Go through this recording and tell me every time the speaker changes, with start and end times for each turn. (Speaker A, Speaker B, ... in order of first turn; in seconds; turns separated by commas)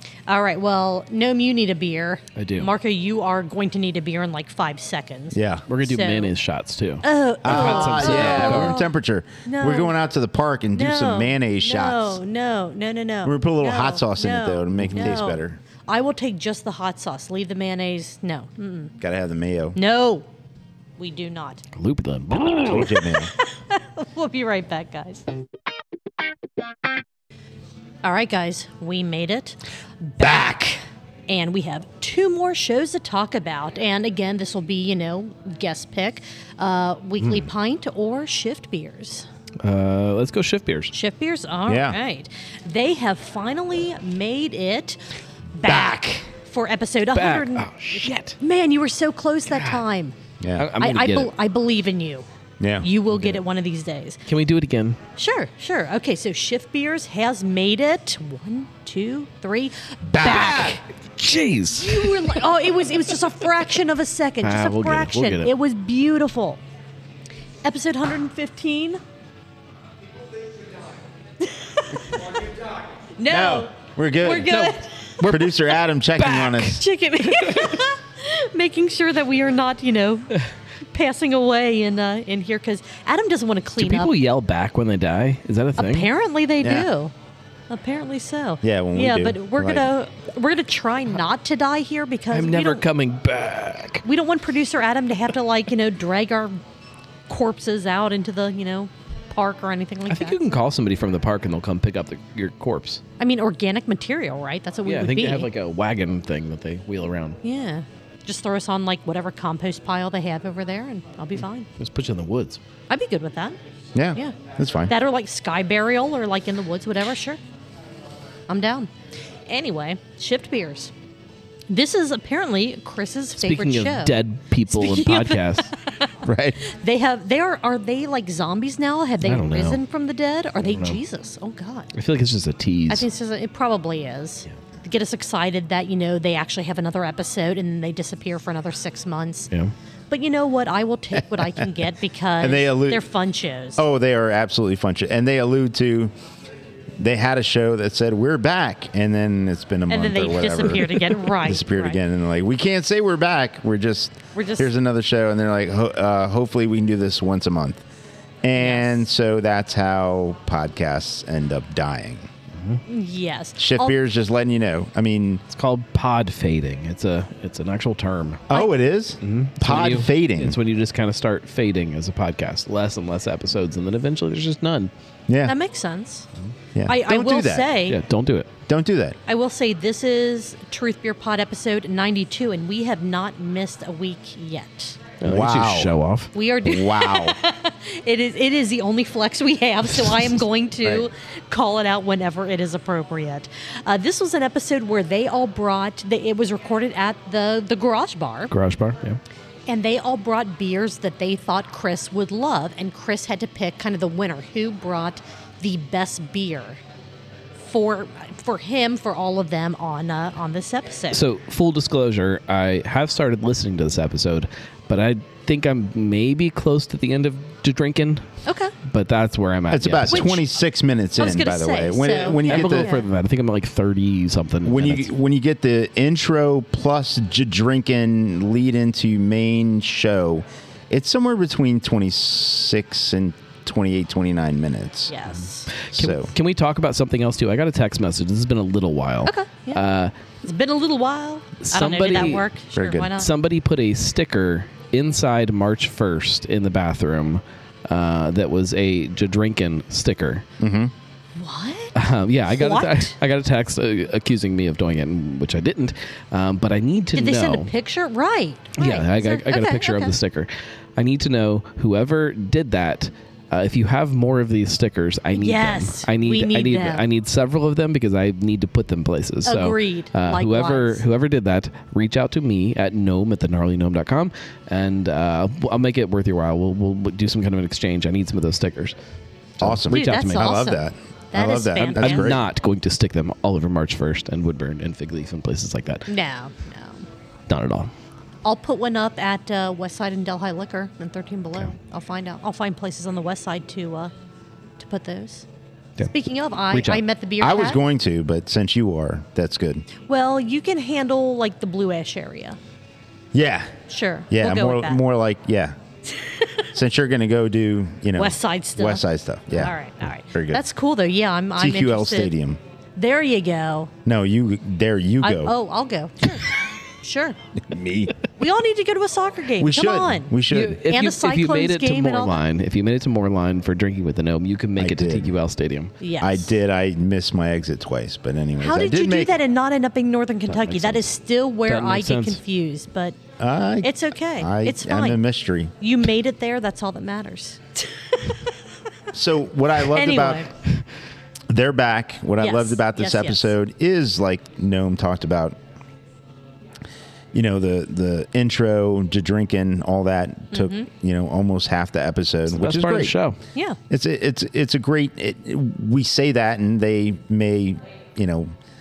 Speaker A: 0.3-6.3, Speaker B: 2.4-2.7, Speaker C: 5.3-5.7, Speaker B: 5.7-8.8, Speaker A: 7.0-8.9, Speaker C: 7.4-12.2, Speaker A: 9.4-9.9, Speaker A: 10.7-18.9, Speaker C: 13.2-15.6, Speaker B: 14.8-15.1, Speaker C: 19.0-19.8, Speaker A: 19.8-20.3, Speaker A: 21.0-21.6, Speaker B: 21.8-23.0, Speaker C: 22.6-23.3, Speaker A: 23.0-25.2, Speaker A: 28.0-39.3, Speaker C: 30.2-30.6, Speaker B: 39.6-40.9, Speaker A: 40.9-45.0, Speaker C: 41.7-42.0, Speaker A: 45.5-50.2, Speaker C: 45.6-46.1, Speaker B: 47.1-48.4, Speaker C: 50.4-50.7, Speaker B: 50.6-51.3, Speaker A: 50.8-52.3, Speaker C: 52.6-52.9, Speaker A: 52.8-54.2, Speaker B: 54.3-55.0, Speaker A: 55.2-60.8, Speaker B: 60.2-62.5, Speaker C: 60.2-60.5, Speaker A: 61.7-66.6, Speaker B: 64.4-65.5, Speaker A: 67.6-69.0, Speaker A: 71.4-72.4, Speaker A: 73.2-75.3, Speaker C: 73.3-74.5, Speaker B: 74.5-75.5, Speaker C: 75.3-76.8, Speaker B: 76.2-77.7, Speaker A: 76.6-80.4, Speaker A: 80.9-84.1, Speaker B: 83.8-86.1, Speaker A: 85.8-87.1, Speaker C: 86.6-86.9, Speaker A: 87.7-92.8, Speaker C: 88.6-89.9, Speaker B: 92.3-94.0, Speaker A: 94.0-96.6, Speaker A: 97.3-100.4, Speaker B: 100.1-103.0, Speaker A: 103.2-105.5, Speaker B: 104.8-107.4, Speaker A: 107.4-111.7, Speaker B: 111.8-112.6, Speaker A: 112.9-113.6, Speaker C: 114.0-114.9, Speaker A: 114.9-117.4, Speaker A: 118.5-118.9, Speaker A: 119.5-120.9, Speaker A: 121.7-124.2, Speaker B: 123.4-125.7, Speaker A: 124.7-131.9, Speaker C: 126.2-126.6, Speaker B: 129.2-129.8, Speaker B: 130.6-131.0, Speaker B: 131.9-133.1, Speaker A: 132.9-139.5, Speaker A: 140.1-143.8, Speaker C: 142.4-143.1, Speaker C: 143.8-146.1, Speaker C: 147.0-157.8, Speaker A: 149.9-152.0, Speaker A: 154.3-154.7, Speaker C: 158.4-162.3, Speaker A: 158.6-159.0, Speaker A: 162.9-164.0, Speaker C: 163.6-165.4, Speaker B: 165.5-168.5, Speaker C: 168.5-170.6, Speaker B: 169.2-174.9, Speaker C: 175.3-175.6, Speaker A: 175.4-176.3, Speaker C: 176.8-177.7, Speaker A: 176.9-178.0, Speaker B: 177.9-178.5, Speaker C: 178.7-179.2, Speaker A: 179.3-185.0, Speaker B: 185.2-186.3, Speaker C: 185.2-185.9, Speaker A: 186.3-198.5, Speaker C: 186.7-187.4, Speaker B: 190.0-190.3, Speaker B: 198.5-199.2, Speaker A: 199.7-206.8, Speaker A: 207.6-211.2, Speaker B: 211.1-220.4, Speaker A: 218.4-218.7, Speaker C: 219.7-222.9, Speaker A: 220.1-220.4, Speaker A: 221.2-223.1, Speaker B: 222.5-225.1, Speaker C: 224.7-235.1, Speaker A: 235.1-235.7, Speaker B: 235.7-240.1, Speaker C: 235.9-236.3, Speaker A: 239.2-239.8, Speaker A: 240.4-243.3, Speaker B: 241.7-242.5, Speaker C: 242.8-243.2, Speaker B: 243.2-250.4, Speaker C: 250.6-250.9, Speaker A: 251.4-253.1, Speaker B: 252.0-257.7, Speaker A: 257.1-260.1, Speaker B: 258.8-278.9, Speaker A: 265.3-267.1, Speaker A: 269.4-271.0, Speaker B: 279.6-280.6, Speaker C: 279.6-282.4, Speaker A: 279.9-282.3, Speaker B: 281.8-286.1, Speaker A: 286.1-287.1, Speaker B: 287.5-287.9, Speaker A: 288.4-294.1, Speaker A: 294.8-295.5, Speaker A: 296.0-297.8, Speaker B: 296.7-297.0, Speaker C: 297.4-299.9, Speaker A: 300.1-302.6, Speaker C: 303.3-303.7, Speaker A: 303.9-305.0, Speaker C: 304.3-305.8, Speaker A: 306.1-306.7, Speaker C: 306.7-310.6, Speaker A: 308.2-312.3, Speaker C: 311.6-312.6, Speaker A: 313.0-313.9, Speaker C: 314.1-315.5, Speaker A: 315.2-317.4, Speaker C: 317.6-318.1, Speaker A: 318.4-320.4, Speaker C: 319.6-320.8, Speaker B: 320.5-325.9, Speaker A: 320.9-322.4, Speaker C: 324.8-325.4, Speaker A: 326.0-326.5, Speaker C: 326.2-329.4, Speaker A: 328.6-333.2, Speaker B: 330.5-331.1, Speaker B: 331.7-332.4, Speaker C: 333.4-335.7, Speaker A: 333.8-335.2, Speaker A: 335.8-338.4, Speaker C: 339.1-340.5, Speaker A: 339.9-340.5, Speaker C: 341.5-345.6, Speaker A: 342.4-343.5, Speaker C: 347.3-353.2, Speaker A: 350.5-350.9, Speaker B: 352.5-353.4, Speaker C: 353.9-358.5